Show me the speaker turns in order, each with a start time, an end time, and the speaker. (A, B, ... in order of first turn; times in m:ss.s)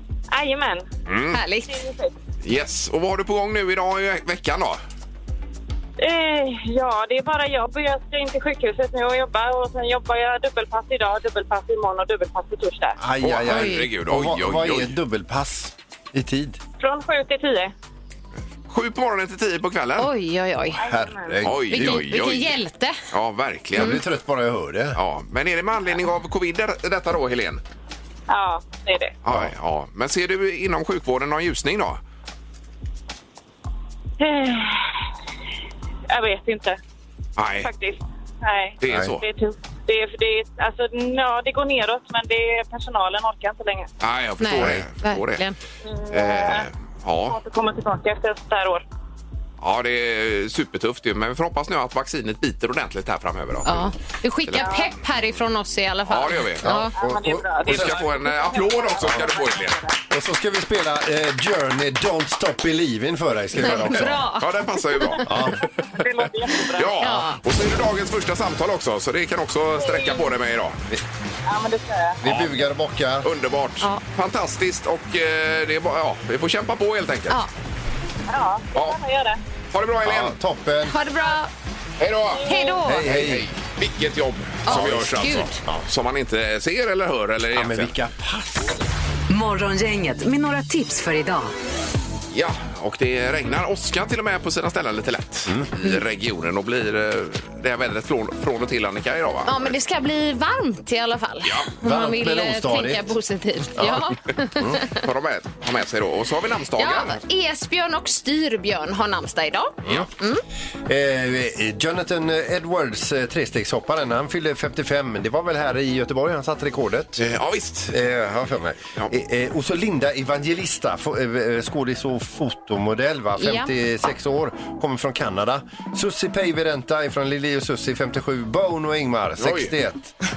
0:00.3-0:00.8 A
0:01.1-0:01.4 B
0:01.3-0:01.8 C
0:01.7-0:02.1 A
0:02.4-0:04.8 B
0:06.0-0:13.0 A
0:13.0-0:16.6 D
0:13.2-0:15.0 B
0:13.5-0:13.9 C
0:16.8-0:17.7 A
0:18.7-0:20.1 B
0:20.0-0:20.8 C
0:20.8-0:21.5 A
0:20.8-0:22.1 D
0:21.4-0:22.6 B
0:21.7-0:23.0 C
0:23.1-0:24.0 B
0:23.7-0:25.0 D
0:25.0-0:27.6 B
0:28.3-0:29.2 A
0:29.2-0:32.0 B
0:34.2-0:34.9 A
0:36.1-0:36.8 A
0:37.4-0:37.7 B
0:37.6-0:43.9 A
0:38.8-0:39.2 B
0:44.0-0:45.4 B
0:44.4-0:45.6 C
0:45.9-0:46.7 A
0:46.1-0:47.4 B
0:47.3-0:48.8 A
0:49.6-0:53.9 B
0:53.6-0:56.9 C
0:54.5-0:54.9 B
0:54.6-0:54.9 A
0:56.1-0:56.6 B
0:56.6-0:58.0 D
0:57.0-0:59.9 A
0:57.6-0:59.8 B
1:00.1-1:04.2 D
1:03.6-1:05.6 B
1:03.6-1:04.5 C
1:05.3-1:05.6 D
1:05.8-1:07.0 A
1:06.2-1:10.8 B
1:07.0-1:07.4 C
1:09.8-1:10.3 A
1:11.5-1:12.2 A
1:12.2-1:13.3 D
1:12.2-1:12.6 B
1:13.2-1:17.4 B
1:18.3-1:19.4 A
1:19.7-1:20.4 B
1:20.0-1:21.0 D
1:20.8-1:21.5 C
1:22.0-1:22.5 B
1:22.4-1:22.8 A
1:22.5-1:23.1 C
1:22.9-1:23.5 D
1:23.0-1:27.9 B
1:24.7-1:25.6 C
1:24.7-1:25.8 D
1:27.5-1:28.8 D
1:29.3-1:31.5 E
1:32.3-1:39.8 B
1:39.5-1:45.0 C
1:41.4-1:41.7 B
1:41.8-1:43.1 D
1:43.8-1:44.0 D
1:44.6-1:44.8 D
1:44.9-1:47.2 B
1:46.8-1:50.4 C
1:50.9-1:57.2 D
1:57.2-1:58.0 B
1:57.9-2:10.1 D
2:03.4-2:03.7 C
2:09.4-2:09.7 B